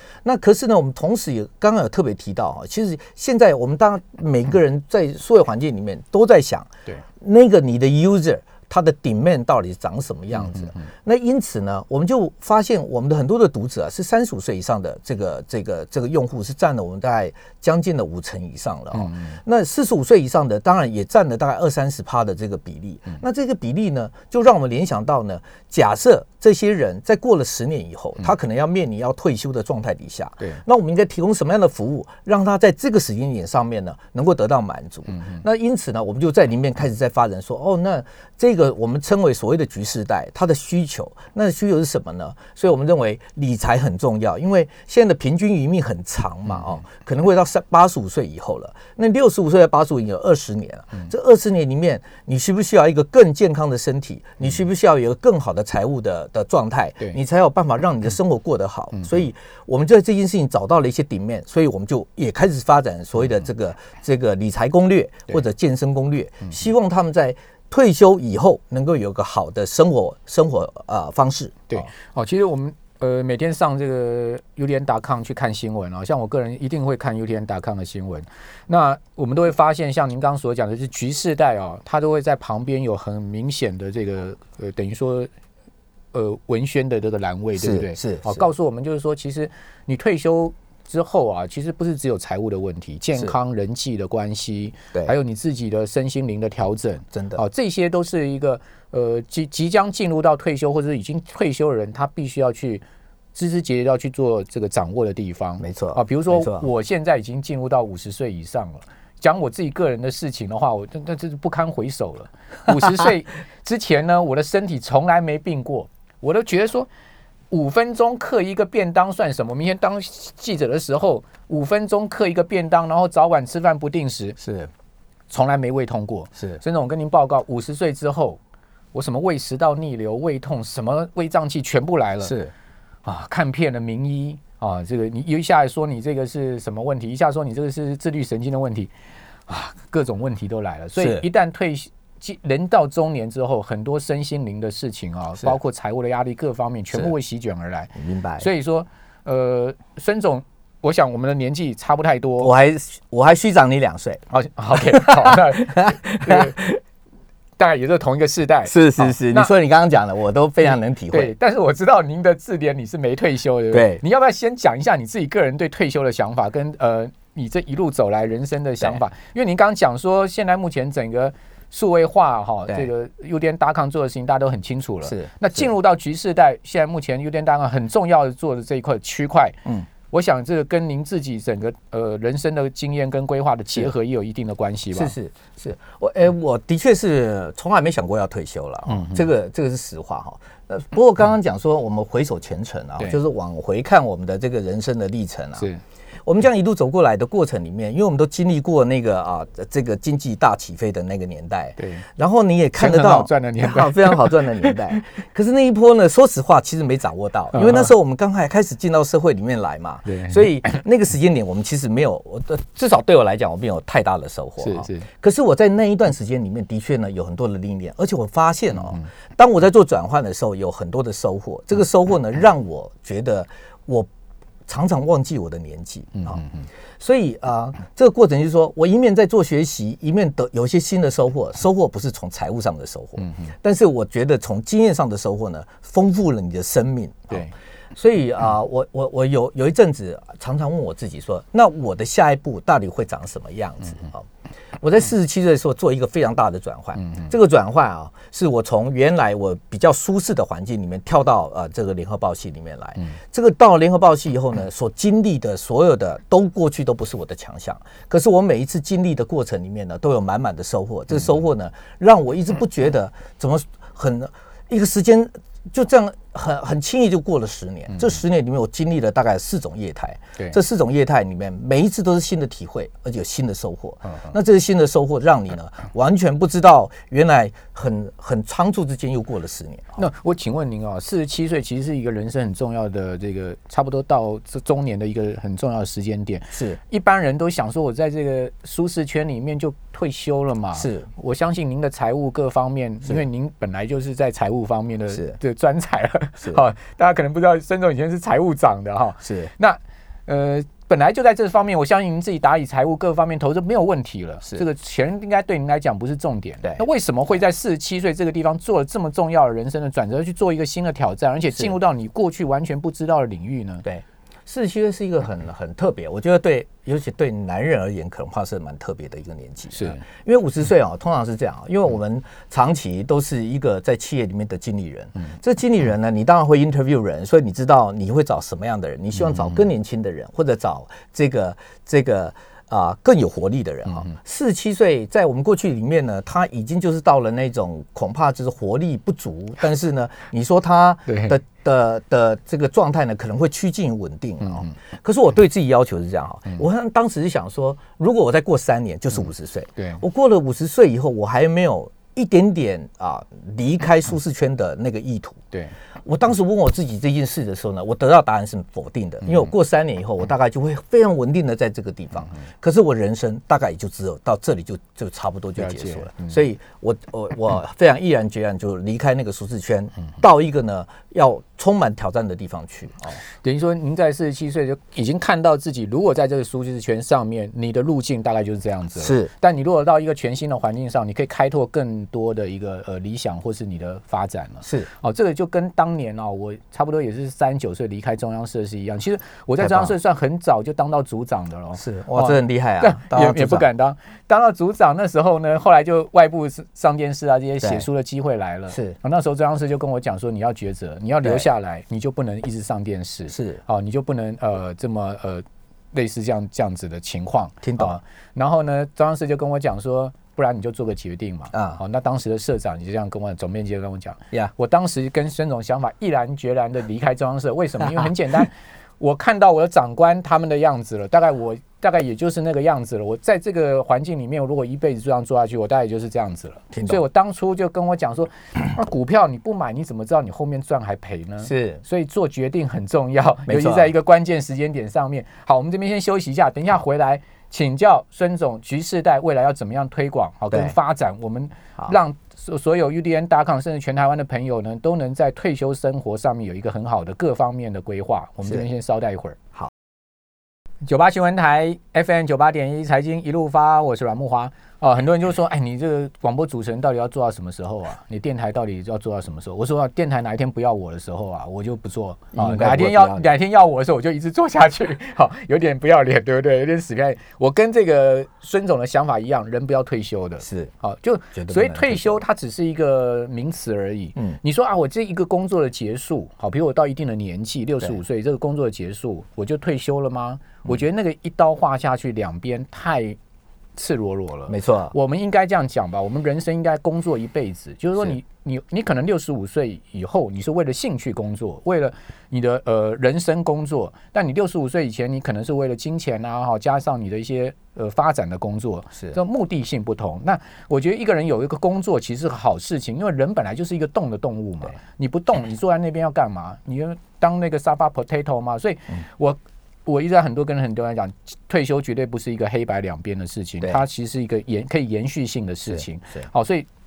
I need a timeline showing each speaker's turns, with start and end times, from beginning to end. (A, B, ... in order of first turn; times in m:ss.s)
0:00.2-1:11.8 A
0:10.5-0:10.8 B
0:19.0-0:19.3 B
1:11.7-1:25.3 B
1:26.1-1:42.8 B
1:27.6-1:28.5 A
1:37.1-1:37.4 A
1:43.3-1:56.9 B
1:45.6-1:46.7 A
1:57.5-2:04.4 B
2:04.4-2:04.7 A
2:05.3-2:08.4 B
2:08.9-2:12.4 B
2:12.2-2:12.5 A
2:13.0-2:18.9 B
2:19.5-2:32.5 B
2:21.0-2:21.2 A
2:28.0-2:28.5 A
2:32.4-2:36.8 A
2:34.3-2:36.6 B
2:37.6-2:39.5 B
2:38.7-2:41.3 A
2:41.1-3:05.1 B
2:43.7-2:44.0 A
2:55.0-2:55.6 A
3:04.9-3:15.7 A
3:08.9-3:09.2 B
3:16.2-3:44.1 A
3:21.8-3:22.0 B
3:22.8-3:25.0 B
3:27.5-3:27.9 B
3:30.0-3:30.8 B
3:34.6-3:35.0 B
3:44.7-3:46.4 A
3:47.0-4:04.3 A
4:04.8-4:40.0 A
4:40.0-5:13.8 B
4:46.5-4:46.8 A
4:50.8-4:51.0 A
4:59.2-4:59.5 A
5:13.8-5:55.4 A
5:19.7-5:20.0 B
5:41.1-5:41.4 B
5:49.8-5:50.0 B
5:56.0-6:13.2 A
6:05.6-6:06.3 B
6:13.4-7:29.4 B
6:19.0-6:19.3 A
6:29.6-6:29.9 A
6:31.8-6:33.6 A
6:38.7-6:39.0 A
6:43.3-6:43.6 A
6:47.6-6:48.0 A
6:51.5-6:51.8 A
7:06.7-7:07.0 A
7:11.4-7:11.8 A
7:13.5-7:13.9 A
7:30.8-8:03.2 B
7:42.4-7:43.3 A
7:50.4-7:50.7 A
7:51.3-7:52.2 A
8:03.8-8:36.6 B
8:04.5-8:04.9 A
8:35.7-8:36.2 A